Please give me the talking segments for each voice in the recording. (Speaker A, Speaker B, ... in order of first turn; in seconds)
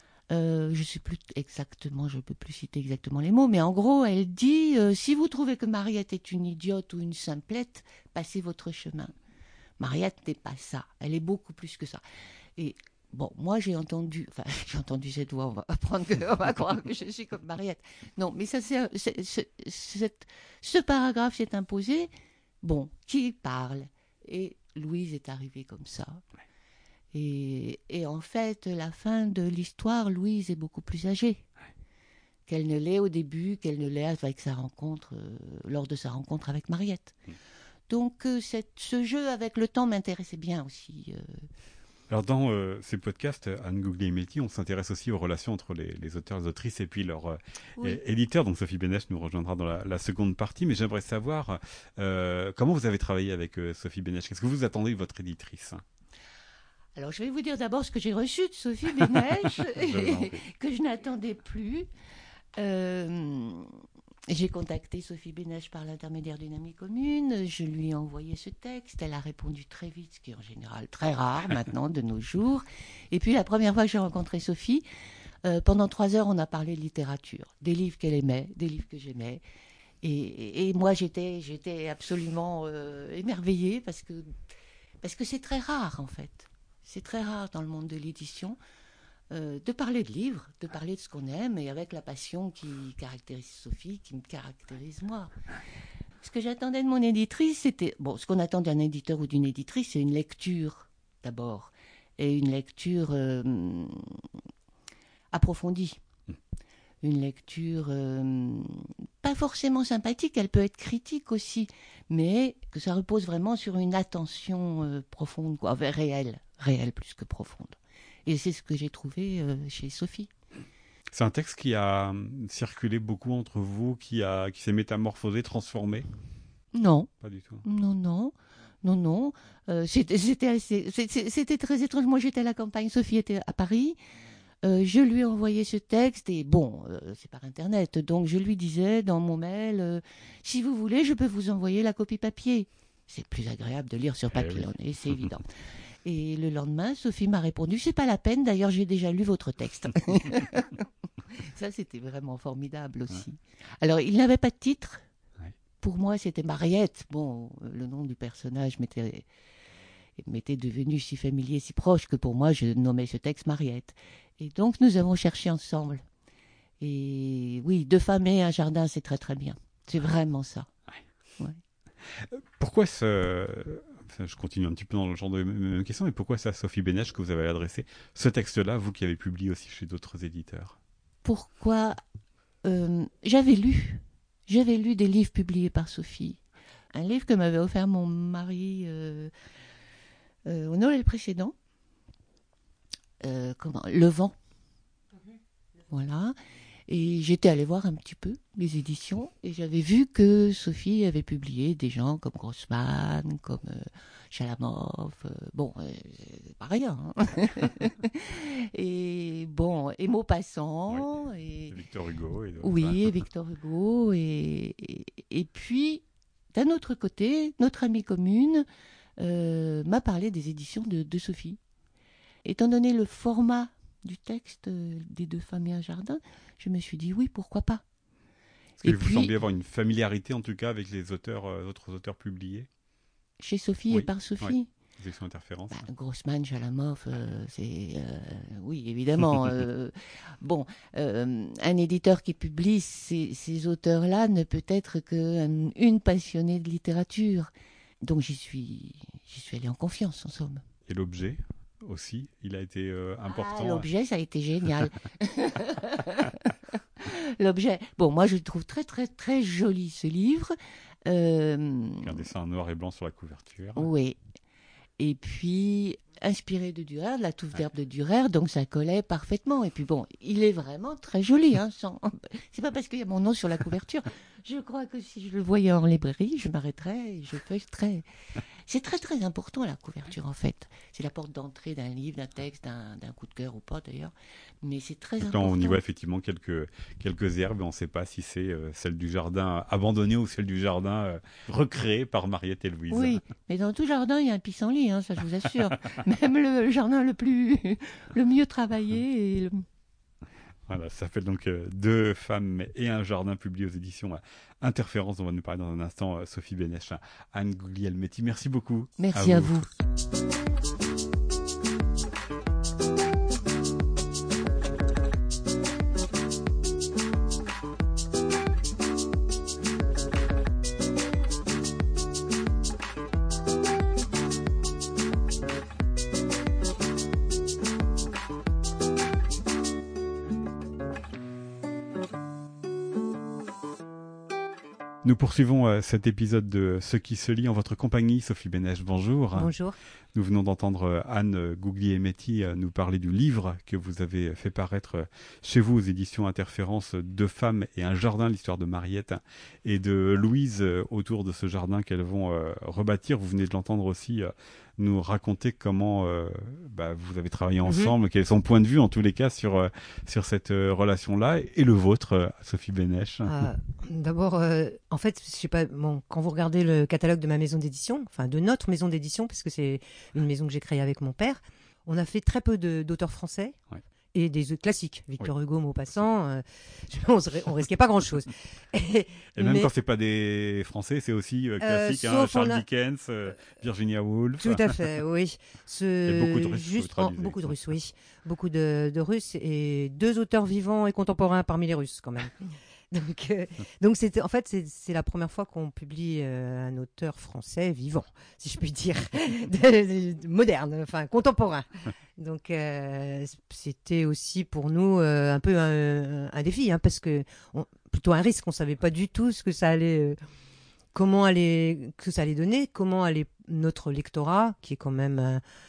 Speaker A: 0.3-9.1, 9.8-12.0, 12.6-22.1, 22.6-26.2, 27.1-31.4, 32.5-37.2, 37.9-41.5, 56.9-61.9, 62.5-63.7, 64.3-74.8, 75.4-79.4, 80.0-84.3, 85.0-88.6, 89.3-95.3, 96.2-104.2, 105.3-106.0, 107.0-120.3, 126.7-127.1, 127.6-128.3, 128.8-134.0, 134.6-145.5, 146.0-155.0, 155.8-159.2, 160.2-166.0, 166.8-170.7, 181.2-182.0, 182.6-186.4, 186.9-189.3, 190.4-191.5, 193.2-194.3, 195.9-196.3, 196.9-211.8, 212.6-218.7, 219.2-221.6, 222.4-227.8, 228.8-229.3, 233.4-234.7, 235.7-247.5, 248.0-250.6, 253.3-262.1, 263.8-264.2, 265.0-278.0, 278.7-285.8, 292.9-299.6, 309.0-309.7
Speaker B: 42.1-55.8, 59.6-60.4, 121.1-126.1, 127.2-127.6, 144.3-145.4, 172.1-180.8, 211.7-213.2, 228.8-232.7, 233.9-235.9, 250.9-253.9, 262.0-263.9, 285.2-293.2, 300.7-309.6, 335.0-339.5, 340.1-363.3, 379.4-384.8, 386.1-387.5
Speaker C: 339.3-339.8, 357.6-357.9, 363.2-373.6, 374.1-379.7, 381.6-382.6, 384.4-410.2, 410.9-415.4